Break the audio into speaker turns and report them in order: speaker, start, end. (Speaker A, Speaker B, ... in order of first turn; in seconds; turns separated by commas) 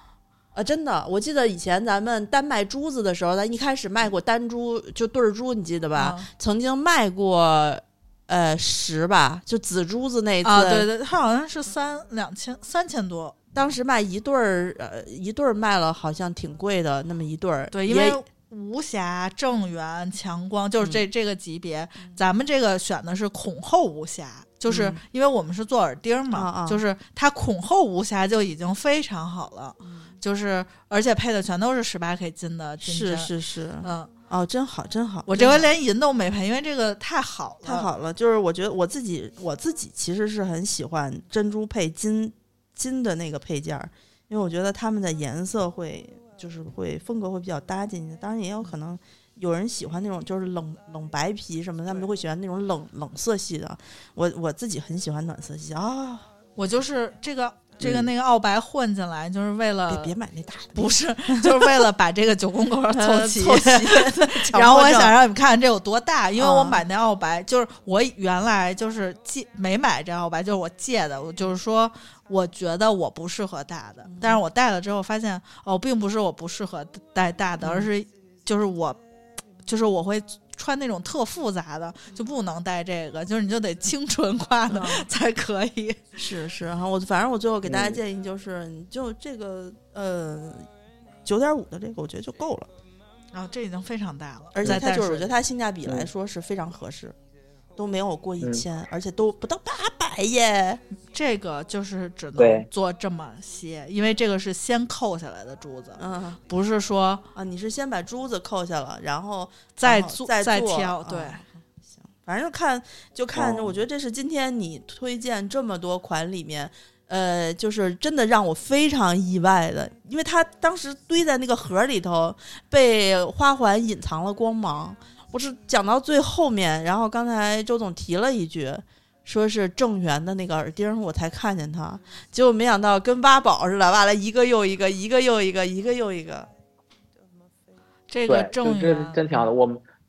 Speaker A: 0.5-10.9, Speaker B: 6.0-6.3, Speaker B: 10.4-13.4, Speaker A: 13.6-18.2, Speaker B: 17.7-34.1, Speaker A: 24.7-25.0, Speaker A: 26.3-26.8, Speaker A: 29.8-30.1, Speaker A: 32.8-35.7, Speaker B: 35.3-37.9, Speaker A: 37.6-56.3, Speaker B: 56.6-60.1, Speaker A: 57.8-58.1, Speaker A: 59.9-61.7, Speaker B: 60.8-79.0, Speaker A: 62.9-65.2, Speaker A: 66.4-66.8, Speaker A: 74.0-74.4, Speaker A: 77.6-77.9, Speaker B: 79.7-86.0, Speaker A: 84.7-85.1, Speaker A: 86.2-90.7, Speaker C: 87.7-88.0, Speaker A: 91.2-92.7, Speaker B: 93.3-95.3, Speaker A: 94.5-97.2, Speaker A: 97.8-100.8, Speaker C: 98.4-98.7, Speaker B: 101.1-107.2, Speaker C: 102.4-102.7, Speaker A: 106.0-106.4, Speaker A: 107.3-136.5, Speaker B: 109.8-111.4, Speaker C: 113.3-113.8, Speaker B: 138.1-139.3, Speaker C: 138.3-139.8